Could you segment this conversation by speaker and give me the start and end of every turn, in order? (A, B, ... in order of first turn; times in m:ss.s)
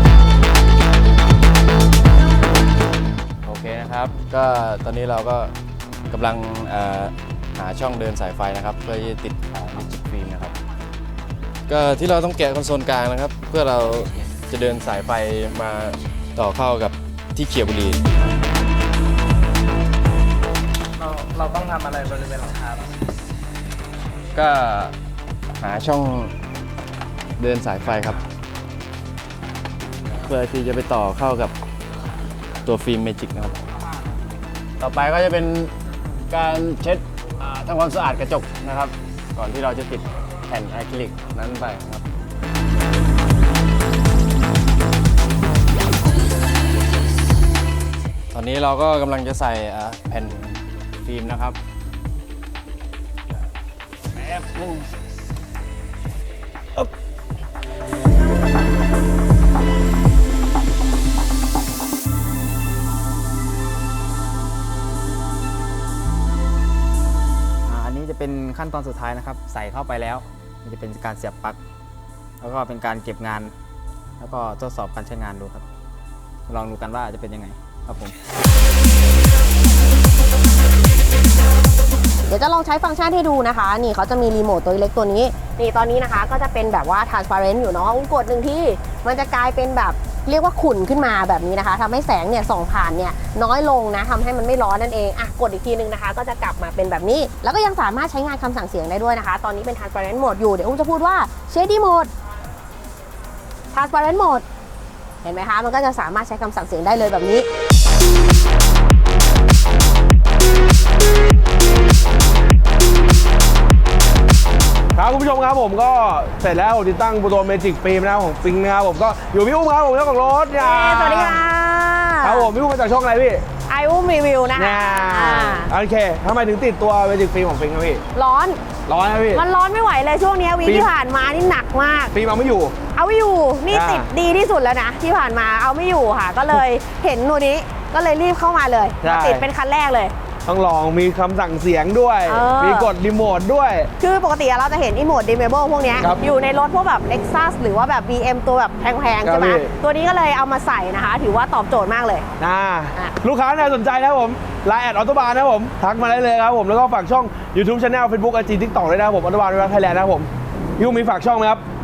0:03.4-0:05.5 A
0:06.1-0:10.5 A
0:11.7-0:18.0 A
0:24.3-0:24.9 A
0:25.6-0:26.3 A
0:27.4-0:28.2 A
0:30.2-0:31.5 A
0:32.6-0:33.6 A
0:34.8-0:35.7 A
0:36.3-0:42.0 A
0:48.3-0:51.6 A
0:54.3-0:54.7 A
1:07.6-1:11.6 B
1:12.4-1:13.6 B
1:14.2-1:15.7 B
1:16.5-1:18.1 B
1:22.3-1:42.1 C
1:43.7-1:44.4 C
1:45.2-1:47.5 C
1:54.9-2:01.4 D
2:00.6-2:02.5 C
2:02.2-2:03.4 D
2:03.7-2:05.7 C
2:04.6-2:08.0 D
2:08.1-2:08.6 C
2:08.9-2:09.4 D
2:09.3-2:12.1 C
2:10.6-2:10.9 D
2:12.1-2:12.8 D
2:12.9-2:20.1 C
2:13.7-2:14.1 D
2:19.0-2:19.5 D
2:20.4-2:23.9 D
2:22.2-2:22.9 C
2:24.0-2:32.2 C
2:29.2-2:29.7 D
2:32.4-2:41.6 D